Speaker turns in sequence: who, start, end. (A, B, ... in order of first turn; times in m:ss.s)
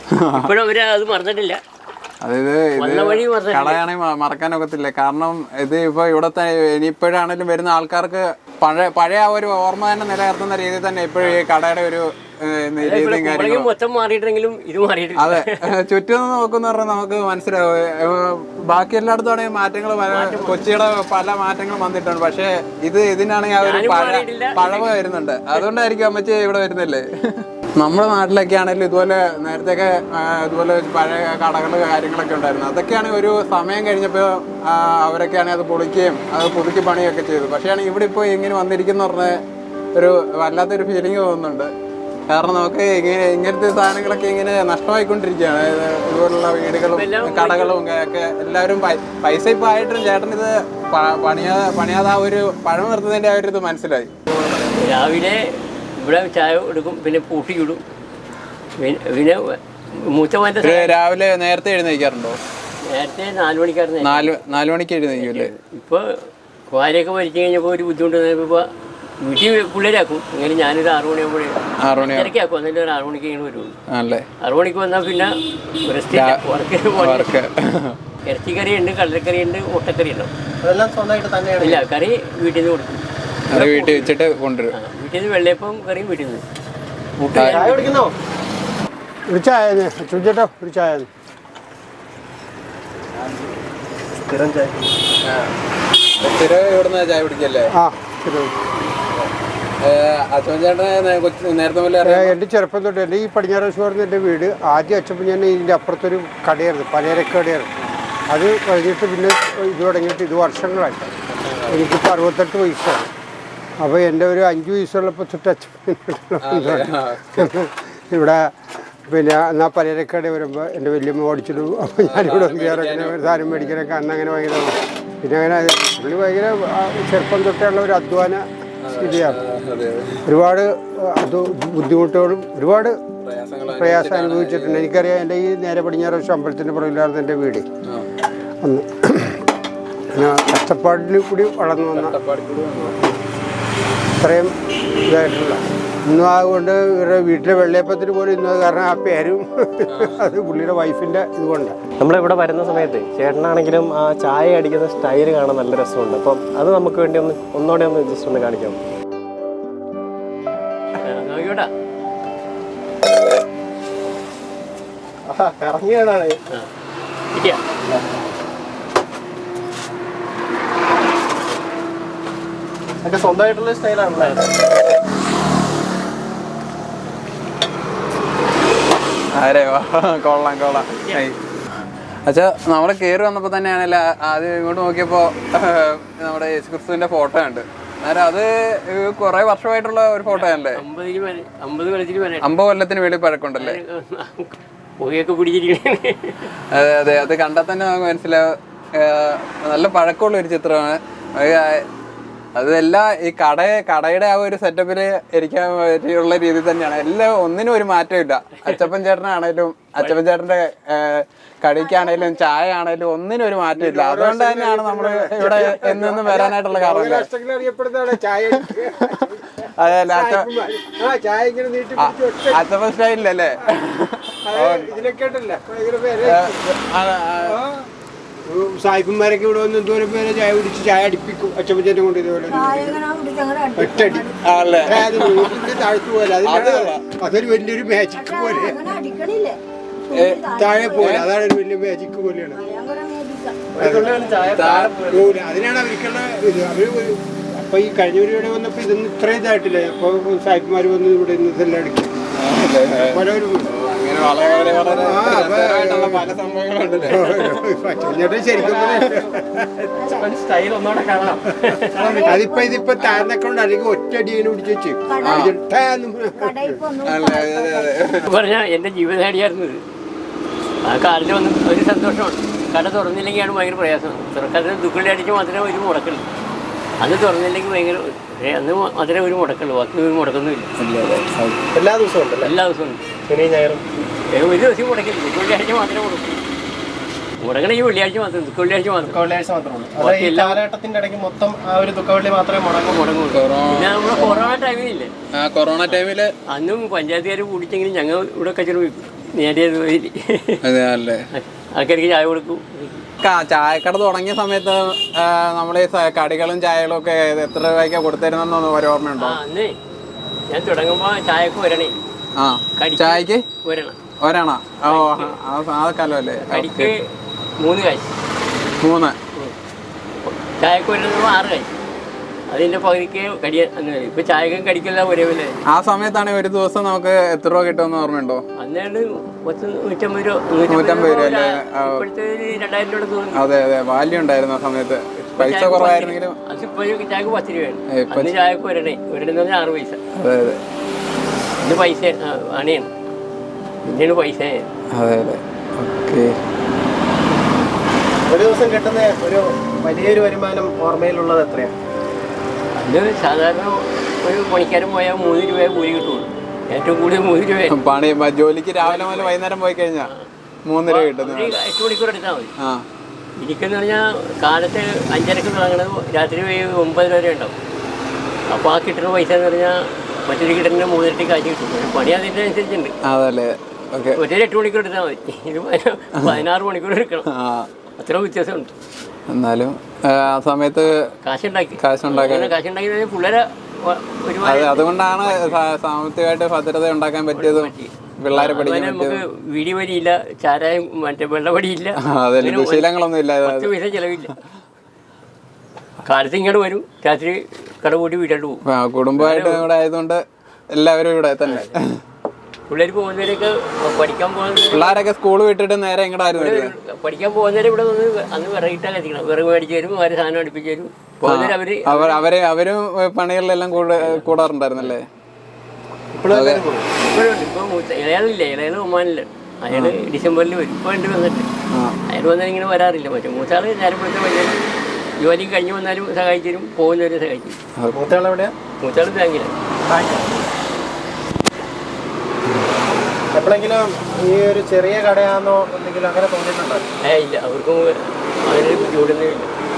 0:00.1-0:00.4 A
0:00.3-0:01.6 B
0:02.2-0:13.7 A
0:02.8-0:03.8 B
0:12.8-0:15.6 B
0:15.2-0:27.0 A
0:20.1-0:20.6 B
0:23.6-0:24.9 B
0:27.8-0:39.3 A
0:40.0-0:41.7 A
0:42.3-0:54.1 A
0:46.9-0:47.7 B
0:54.3-0:57.8 B
0:58.8-1:00.9 B
1:00.6-1:02.4 A
1:02.9-1:04.3 B
1:04.0-1:05.5 A
1:05.2-1:08.7 B
1:09.2-1:13.8 B
1:11.8-1:12.3 A
1:13.9-1:14.3 A
1:14.4-1:17.3 B
1:16.1-1:16.4 A
1:17.0-1:18.0 A
1:18.2-1:20.3 B
1:20.6-1:21.9 C
1:21.6-1:24.1 B
1:23.5-1:24.7 A
1:24.7-1:26.4 B
1:27.2-1:27.6 A
1:27.3-1:27.9 B
1:27.4-1:28.1 C
1:29.3-1:31.1 D
1:34.2-1:34.7 C
1:35.2-1:35.5 A
1:36.2-1:37.7 A
1:37.7-1:38.5 D
1:39.8-1:42.3 A
1:42.0-1:47.7 D
1:48.3-1:51.1 D
1:51.1-1:51.9 A
1:51.7-1:53.1 D
1:53.8-1:58.5 D
1:56.4-1:57.5 A
1:59.1-2:08.4 D
2:02.0-2:03.7 A
2:08.8-2:10.0 A
2:09.0-2:09.4 D
2:10.3-2:13.0 D
2:13.2-2:14.8 A
2:13.7-2:17.6 D
2:18.6-2:19.4 D
2:20.1-2:22.1 D
2:21.9-2:23.0 A
2:24.2-2:24.5 D
2:25.1-2:31.7 D
2:29.9-2:30.2 A
2:32.0-2:38.8 C
2:41.0-2:41.7 B
2:45.3-2:46.4 C
2:47.3-2:47.6 B
2:53.0-2:54.5 C
2:59.4-3:01.4 A
3:02.2-3:10.8 A
3:10.3-3:12.5 B
3:12.4-3:13.8 A
3:13.6-3:16.5 B
3:16.7-3:21.8 A
3:22.6-3:37.3 A
3:33.8-3:42.6 D
3:38.6-3:39.1 A
3:39.8-3:40.5 A
3:42.0-3:44.9 A
3:44.4-3:46.6 D
3:46.3-3:47.6 A
3:47.4-3:47.8 D
3:48.5-3:53.0 D
3:52.5-3:54.4 E
3:53.7-3:54.3 D
3:54.4-3:55.6 A
3:54.8-3:59.0 D
3:56.4-3:57.0 A
3:58.1-3:59.6 E
4:00.1-4:01.2 E
4:00.1-4:01.3 A
4:00.5-4:02.6 D
4:02.5-4:03.7 E
4:03.7-4:05.4 C
4:03.8-4:04.1 D
4:04.5-4:05.0 A
4:05.1-4:12.1 D
4:12.4-4:17.6 A
4:13.0-4:13.7 D
4:14.3-4:15.1 E
4:14.8-4:16.3 D
4:17.0-4:19.6 D
4:18.0-4:18.7 E
4:18.6-4:19.2 C
4:19.8-4:22.2 C
4:19.9-4:20.3 E
4:21.9-4:23.2 E
4:22.2-4:26.8 D
4:25.1-4:25.5 E
4:25.2-4:25.6 A
4:26.4-4:27.9 E
4:27.0-4:28.2 A
4:28.2-4:29.8 B
4:30.8-4:36.3 B
4:37.0-4:41.2 B
4:40.8-4:41.6 A
4:41.7-4:42.5 C
4:42.4-4:43.0 B
4:43.3-4:43.8 C
4:44.1-4:46.4 B
4:47.4-4:49.2 B
4:49.0-4:53.0 C
4:50.0-4:50.6 B
4:52.9-4:55.1 B
4:53.3-4:54.5 A
4:55.3-4:56.3 A
4:55.9-5:00.6 B
5:00.6-5:01.2 A
5:01.3-5:03.0 B
5:03.2-5:09.4 A
5:09.2-5:09.8 B
5:10.5-5:11.9 B
5:12.4-5:13.4 A
5:12.8-5:14.0 B
5:14.2-5:16.9 A
5:14.9-5:15.4 B
5:16.4-5:17.0 B
5:17.6-5:18.1 B
5:18.8-5:19.2 A
5:20.2-5:21.7 B
5:22.5-5:25.6 B
5:25.7-5:28.4 A
5:28.6-5:33.4 B
5:30.7-5:32.0 A
5:33.4-5:36.4 A
5:35.4-5:40.0 B
5:37.9-5:38.3 A
5:40.2-5:40.6 A
5:41.6-5:42.9 B
5:43.8-5:44.6 B
5:44.9-5:46.3 A
5:48.2-5:51.7 C
5:52.8-5:57.8 B
5:57.7-6:00.1 A
5:58.8-5:59.4 B
6:00.0-6:00.3 B
6:00.6-6:01.6 A
6:00.9-6:02.5 B
6:02.6-6:02.8 A
6:03.4-6:07.5 B
6:08.5-6:12.9 B
6:13.1-6:14.2 A
6:14.2-6:17.3 B
6:17.3-6:17.7 A
6:18.0-6:18.7 B
6:19.3-6:20.9 A
6:21.2-6:25.6 B
6:21.8-6:22.5 A
6:24.4-6:29.2 A
6:27.3-6:32.9 B
6:32.0-6:33.7 A
6:33.4-6:34.4 B
6:36.0-6:38.6 B
6:38.7-6:40.2 A
6:39.2-6:39.6 B
6:40.7-6:41.8 A
6:41.4-6:41.7 B
6:42.7-6:44.9 B
6:44.7-6:46.7 A
6:46.3-6:52.2 B
6:51.3-6:55.0 A
6:54.0-6:54.3 B
6:56.1-6:56.9 C
6:56.3-6:56.6 A
6:57.0-7:01.5 B
7:01.7-7:02.0 A
7:02.1-7:04.6 B
7:05.2-7:07.6 B
7:07.9-7:08.5 C
7:08.8-7:09.5 B
7:09.8-7:10.4 C
7:13.3-7:16.8 C
7:17.0-7:19.5 B